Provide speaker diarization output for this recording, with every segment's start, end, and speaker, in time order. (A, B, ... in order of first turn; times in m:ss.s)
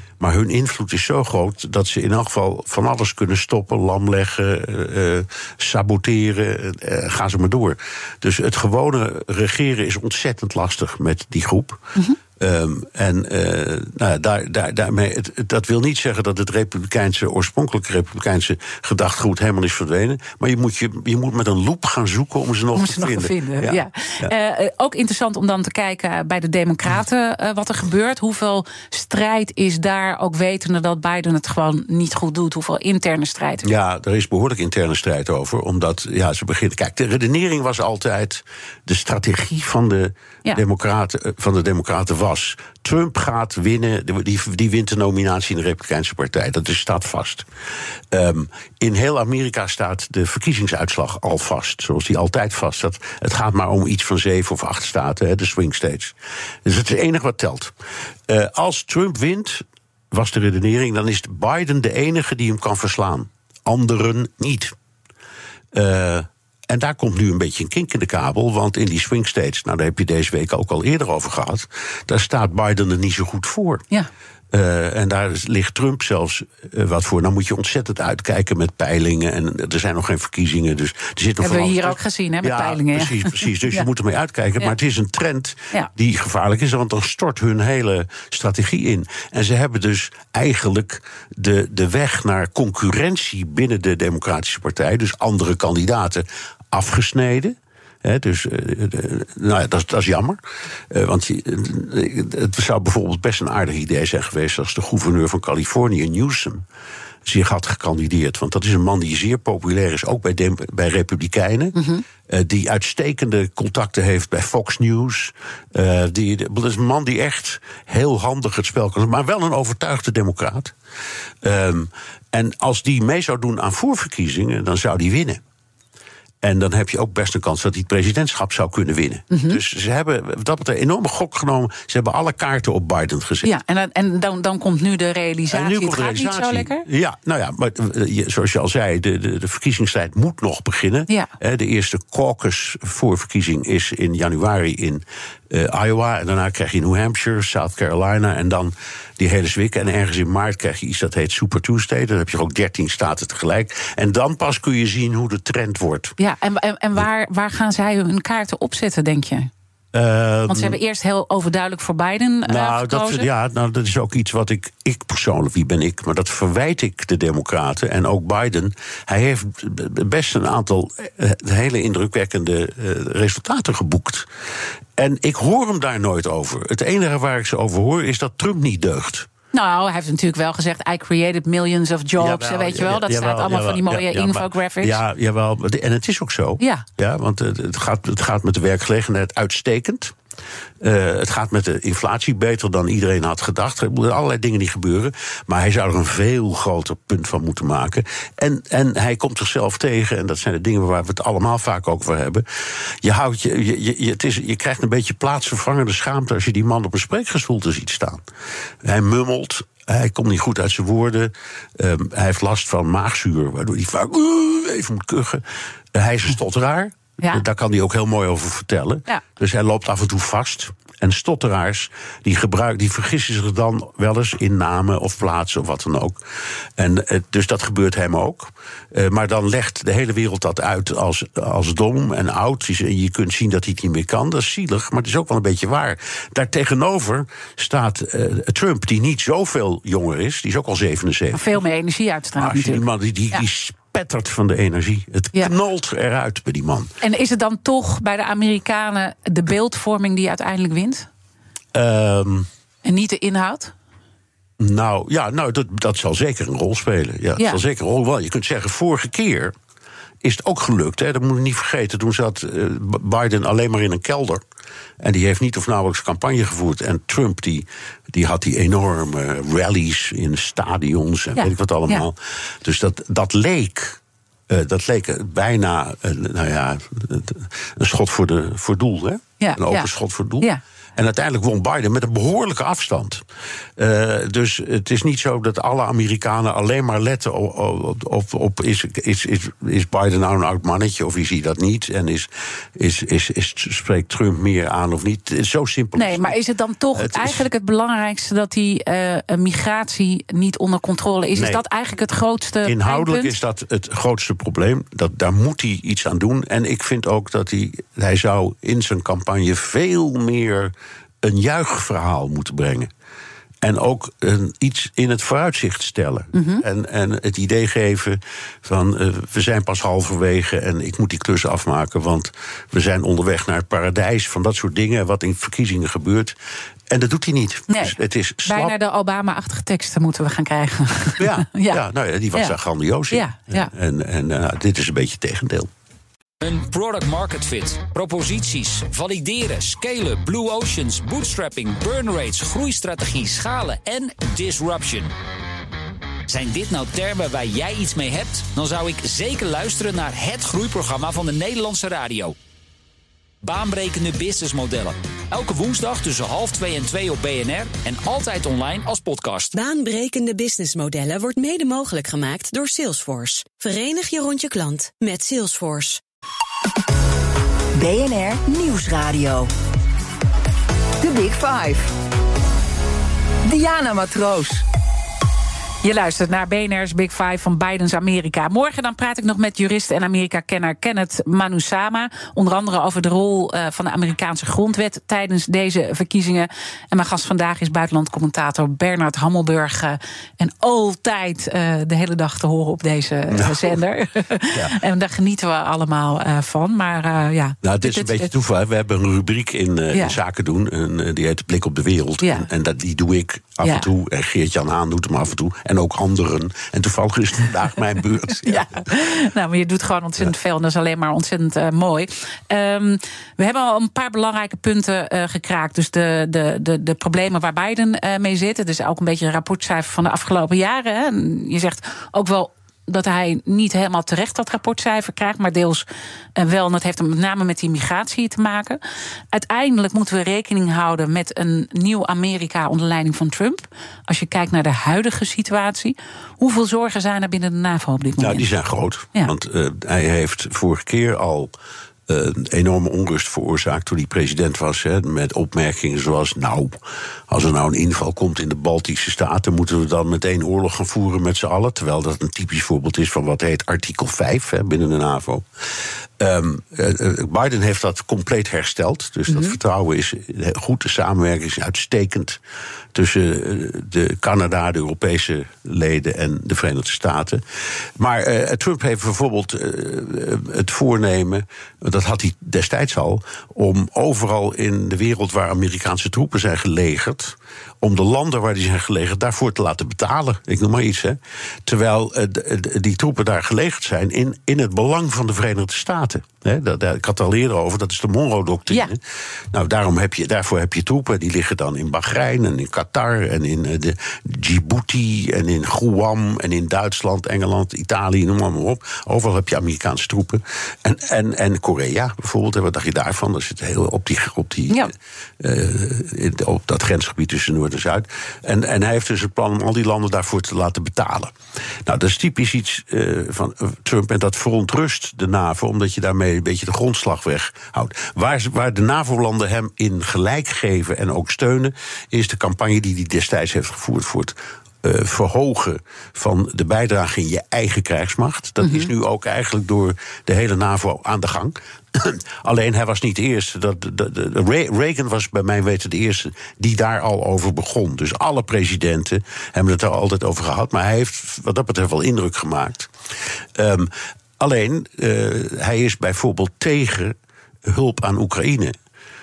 0:00.2-0:11.8 A
0:12.4-0:24.3 A
0:22.7-0:33.7 B
0:33.6-0:47.5 A
0:48.1-0:57.7 A
0:58.3-1:04.7 A
1:05.7-1:13.8 A
1:14.5-1:46.6 A
1:21.4-1:23.9 B
1:47.2-2:00.7 A
1:51.7-1:52.0 B
2:01.4-2:05.4 A
2:06.4-2:13.5 A
2:09.3-2:09.6 B
2:13.4-2:16.8 B
2:15.5-2:36.1 A
2:36.2-2:39.5 B
2:39.9-2:40.8 A
2:40.5-2:43.3 B
2:42.4-2:54.3 A
2:55.0-2:59.3 A
2:59.5-3:05.0 B
3:02.2-3:10.1 A
3:06.6-3:06.8 B
3:10.8-3:28.2 A
3:28.8-3:46.2 A
3:46.8-4:01.6 A
4:01.3-4:03.4 B
4:02.4-4:06.9 A
4:07.0-4:11.1 B
4:11.7-4:12.5 A
4:12.8-4:13.7 B
4:14.6-4:19.5 A
4:20.2-4:24.4 A
4:25.0-4:43.2 A
4:31.4-4:32.0 B
4:39.4-4:39.9 B
4:43.8-4:56.4 A
4:55.9-5:03.4 B
4:56.9-4:57.5 A
5:01.3-5:01.6 A
5:02.6-5:12.9 A
5:13.6-5:26.4 A
5:16.3-5:16.6 B
5:26.9-5:28.7 A
5:27.7-5:31.8 B
5:31.2-5:35.7 A
5:33.1-5:33.7 B
5:36.4-5:45.1 C
5:46.3-5:52.3 C
5:53.4-5:59.5 C
5:59.5-6:06.0 D
6:07.7-6:09.5 E
6:11.0-6:11.9 E
6:13.4-6:14.6 E
6:15.8-6:38.3 B
6:33.3-6:33.8 A
6:37.6-6:48.8 A
6:43.6-6:43.9 B
6:48.4-7:05.8 B
7:06.4-7:08.8 B
7:09.3-7:18.4 B
7:18.2-7:21.5 A
7:22.1-7:42.4 A
7:39.3-7:39.6 B
7:42.9-8:31.3 A
8:31.8-9:02.9 A
8:48.6-8:48.9 B
9:03.5-9:08.7 A